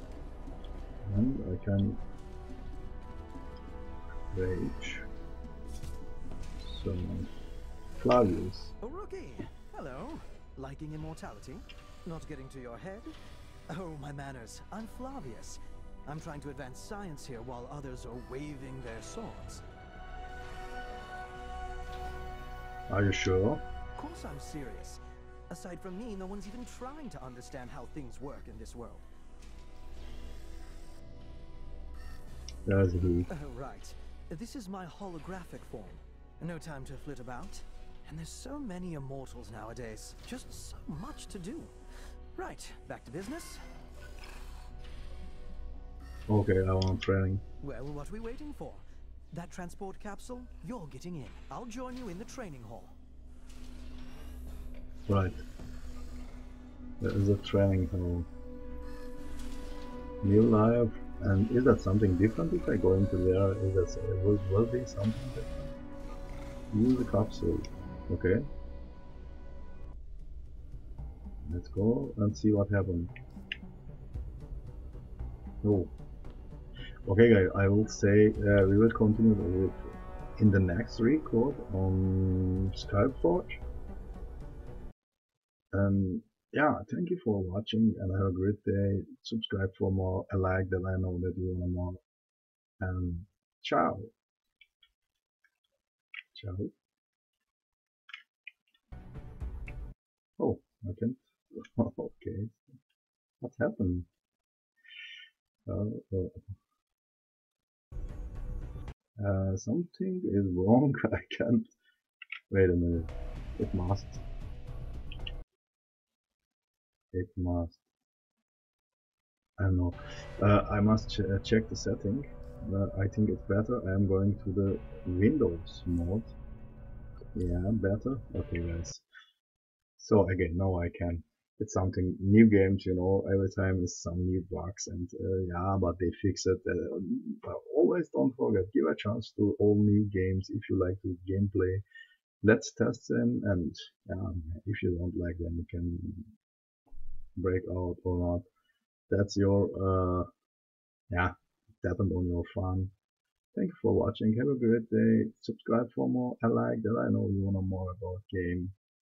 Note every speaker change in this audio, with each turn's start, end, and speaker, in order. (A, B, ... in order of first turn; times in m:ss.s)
0:01.1-0:02.0 A
0:04.3-0:05.1 A
0:06.6-0:07.3 A
0:08.0-0:08.8 A
0:08.8-0:13.2 B
0:13.7-0:19.6 B
0:22.9-0:23.6 A
0:24.0-0:29.0 B
0:32.7-0:33.3 A
0:33.3-0:41.8 B
0:42.4-0:43.6 B
0:46.3-0:47.4 A
0:47.6-0:53.0 B
0:55.1-0:55.4 A
0:57.0-0:58.3 A
1:00.2-1:05.5 A
1:06.7-1:08.4 A
1:11.4-1:13.1 A
1:15.6-1:15.9 A
1:17.1-1:19.8 A
1:20.4-1:23.6 A
1:25.7-1:32.0 A
1:32.8-1:34.1 A
1:36.4-1:36.7 A
1:40.4-1:42.6 A
1:43.4-1:44.1 A
1:45.7-1:46.5 A
1:49.2-1:51.7 A
1:52.5-1:54.2 A
1:57.1-1:57.8 A
1:59.6-2:06.3 A
2:07.4-2:09.0 A
2:10.0-2:21.8 A
2:22.4-2:26.3 A
2:27.4-2:28.5 A
2:29.1-2:30.3 A
2:31.1-2:32.9 A
2:33.6-2:38.8 A